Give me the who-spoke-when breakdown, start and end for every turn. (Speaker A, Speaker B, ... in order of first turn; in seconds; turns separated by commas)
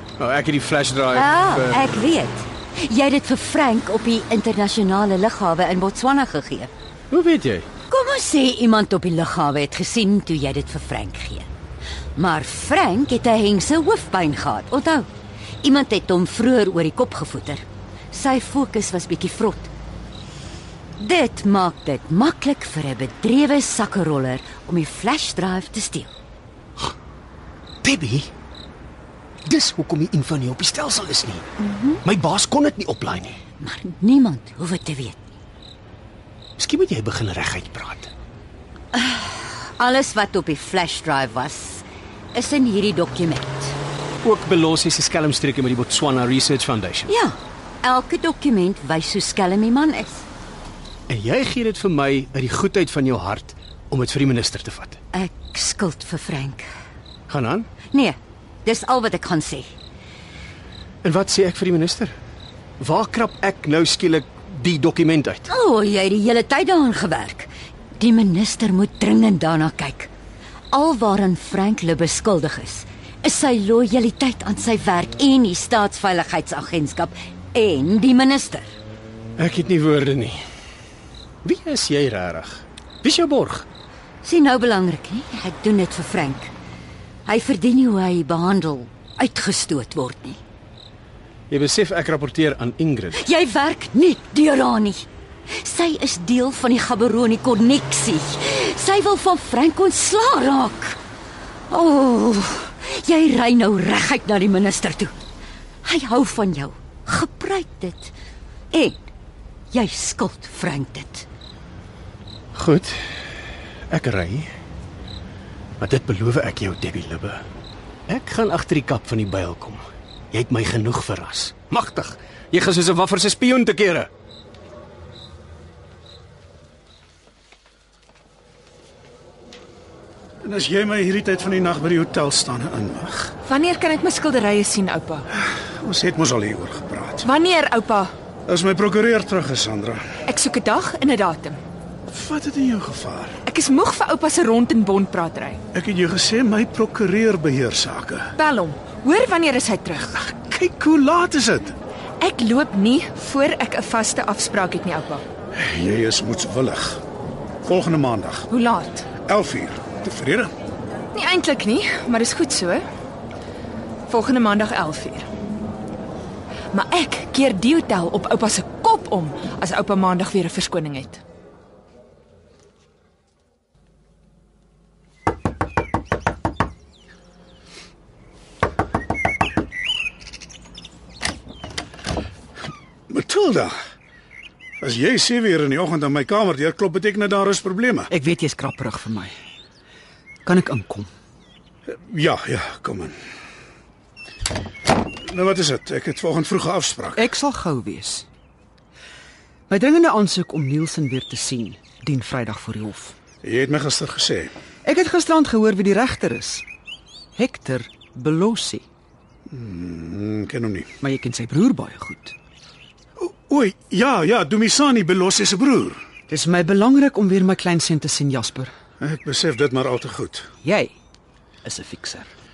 Speaker A: 0.2-1.9, Speaker B: 1.1-6.7, Speaker A: 7.1-7.7, Speaker B: 7.9-11.5, Speaker B: 12.2-15.1, Speaker B: 15.6-19.7, Speaker B: 21.0-26.1, Speaker A: 27.8-28.3, Speaker A: 29.4-31.5, Speaker B: 31.6-32.0, Speaker A: 32.0-33.4, Speaker B: 33.6-35.3, Speaker A: 36.6-38.1, Speaker B: 38.9-43.8, Speaker A: 44.2-47.1, Speaker B: 47.1-50.2, Speaker A: 51.1-55.0, Speaker B: 55.1-56.7, Speaker A: 57.3-57.7, Speaker B: 57.9-59.7, Speaker A: 61.0-62.1, Speaker A: 62.8-65.5, Speaker B: 65.5-70.1, Speaker B: 70.7-78.7, Speaker A: 79.4-80.4, Speaker A: 81.4-83.7, Speaker B: 84.2-86.5, Speaker B: 87.2-90.4, Speaker A: 91.5-93.2, Speaker B: 93.1-101.0, Speaker B: 101.7-105.1, Speaker B: 105.8-108.1, Speaker B: 108.7-109.1, Speaker B: 109.7-111.2, Speaker A: 112.5-113.0, Speaker A: 113.9-114.5, Speaker A: 115.8-117.4, Speaker A: 118.1-124.1, Speaker C: 130.4-133.3, Speaker D: 133.4-135.3, Speaker C: 135.8-137.2, Speaker D: 137.2-138.1, Speaker C: 138.5-140.0, Speaker D: 140.2-141.6, Speaker C: 142.1-143.4, Speaker D: 143.4-145.6, Speaker C: 145.7-148.3, Speaker D: 148.4-150.2, Speaker C: 150.2-151.7, Speaker D: 152.2-155.2, Speaker C: 155.5-157.0, Speaker C: 157.6-158.5, Speaker D: 158.5-159.1, Speaker C: 159.2-160.5, Speaker D: 161.1-162.8, Speaker D: 164.1-165.3, Speaker D: 166.7-171.2, Speaker C: 183.1-183.7, Speaker C: 184.8-188.1, Speaker E: 188.1-189.3, Speaker E: 190.4-191.1, Speaker C: 191.9-193.2, Speaker C: 195.0-197.2, Speaker E: 197.1-198.3, Speaker E: 199.7-203.1, Speaker C: 203.4-204.5, Speaker E: 204.8-206.6, Speaker E: 207.3-208.8, Speaker C: 209.5-210.9, Speaker E: 211.0-212.3, Speaker C: 213.2-216.0, Speaker E: 216.3-218.7, Speaker C: 219.0-220.5, Speaker E: 220.6-220.9, Speaker E: 221.6-222.3